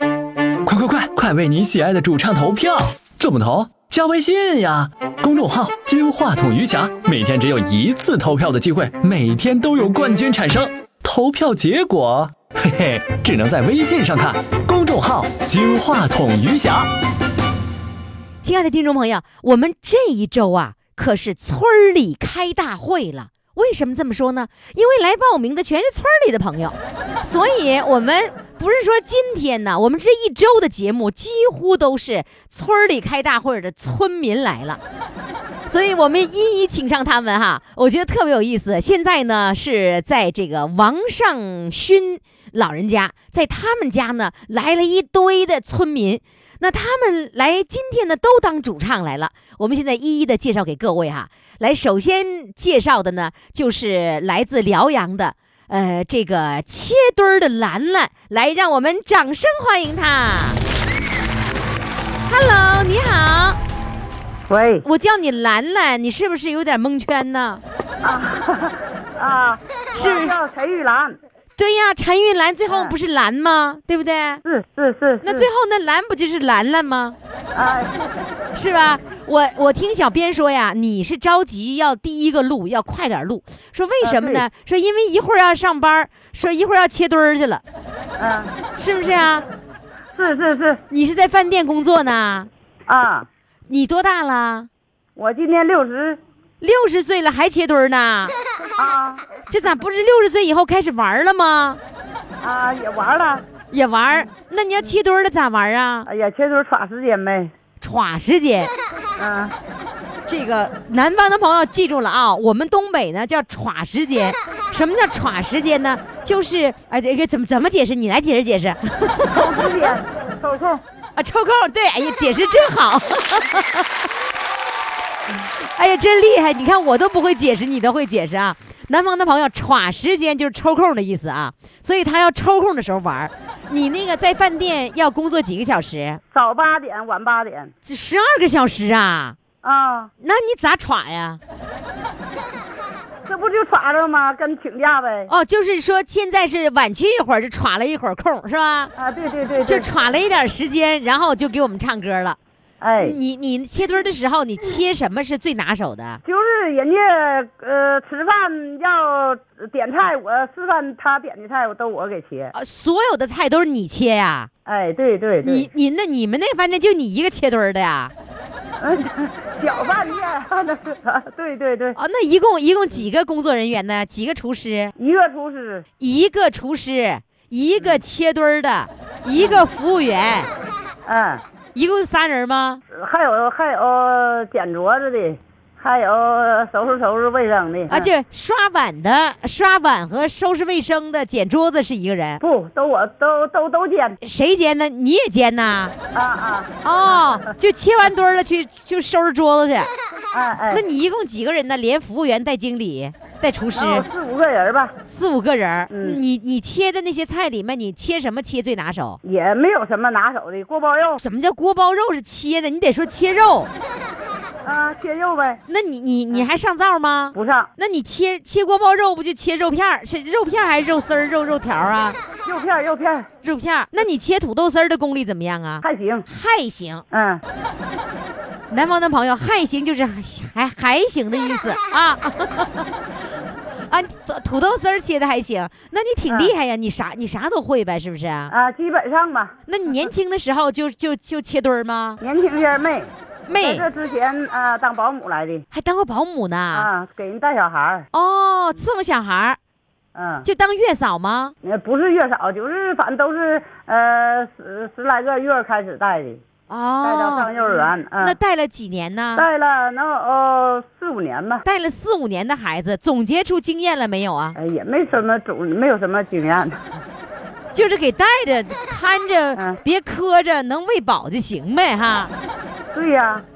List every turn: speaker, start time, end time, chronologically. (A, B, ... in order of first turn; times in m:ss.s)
0:00.6-0:16.9 A
0:18.4-0:34.8 B
0:35.7-1:00.6 B
1:02.2-1:03.6 B
1:04.5-1:04.8 C
1:04.8-1:07.6 B
1:08.0-1:11.2 C
1:09.9-1:10.3 B
1:11.6-1:14.4 B
1:12.7-1:13.0 C
1:14.4-1:15.5 C
1:15.2-1:17.2 B
1:17.5-1:18.3 C
1:18.5-1:27.6 B
1:24.0-1:24.4 C
1:28.2-1:28.5 C
1:28.8-1:29.4 B
1:30.1-1:30.8 C
1:30.9-1:32.5 B
1:32.9-1:33.3 C
1:33.7-1:34.7 B
1:35.2-1:36.2 C
1:36.6-1:38.3 B
1:38.8-1:39.2 C
1:39.5-1:41.8 B
1:42.4-1:43.4 C
1:43.7-1:46.1 B
1:46.0-1:47.5 C
1:47.8-1:48.7 B
1:49.2-1:49.5 C
1:50.2-1:59.7 B
1:59.3-2:00.8 C
2:01.2-2:03.9 B
2:05.3-2:16.2 B
2:16.3-2:17.7 C
2:17.8-2:19.4 B
2:19.6-2:20.1 C
2:20.2-2:21.4 B
2:23.3-2:25.3 C
2:25.3-2:28.9 B
2:29.0-2:29.9 C
2:29.6-2:32.4 B
2:32.8-2:33.2 C
2:33.0-2:36.2 B
2:36.2-2:42.5 C
2:42.5-2:44.5 B
2:44.6-2:45.7 C
2:45.4-2:48.1 B
2:48.8-2:52.0 C
2:52.0-2:54.9 B
2:55.0-2:55.8 C
2:56.0-3:00.5 B
2:59.3-2:59.6 C
3:01.0-3:01.4 C
3:01.7-3:02.8 B
3:02.9-3:08.1 C
3:07.9-3:12.4 B
3:12.4-3:14.2 C
3:14.2-3:15.9 B
3:16.1-3:17.2 C
3:16.8-3:19.9 B
3:20.3-3:20.8 C
3:20.7-3:24.0 B
3:23.7-3:25.0 C
3:25.0-3:29.2 B
3:25.9-3:26.2 C
3:29.2-3:31.2 C
3:31.2-3:33.7 B
3:34.6-3:35.6 C
3:35.7-3:42.2 B
3:37.3-3:37.7 C
3:42.4-3:43.3 C
3:43.4-3:47.0 B
3:45.8-3:46.2 C
3:47.1-3:47.4 C
3:48.7-3:52.8 B
3:53.9-3:58.5 B
3:58.5-3:59.5 C
3:59.7-4:02.2 B
4:02.2-4:05.6 C
4:03.5-4:03.8 B
4:05.7-4:06.9 B
4:06.7-4:08.1 C
4:08.1-4:09.6 B
4:10.1-4:10.5 C
4:10.4-4:11.5 B
4:11.6-4:16.4 C
4:16.7-4:17.5 B
4:17.0-4:18.4 C
4:18.2-4:19.4 B
4:19.4-4:21.6 C
4:21.6-4:24.6 B
4:24.6-4:26.8 C
4:27.7-4:32.3 B
4:32.9-4:33.4 C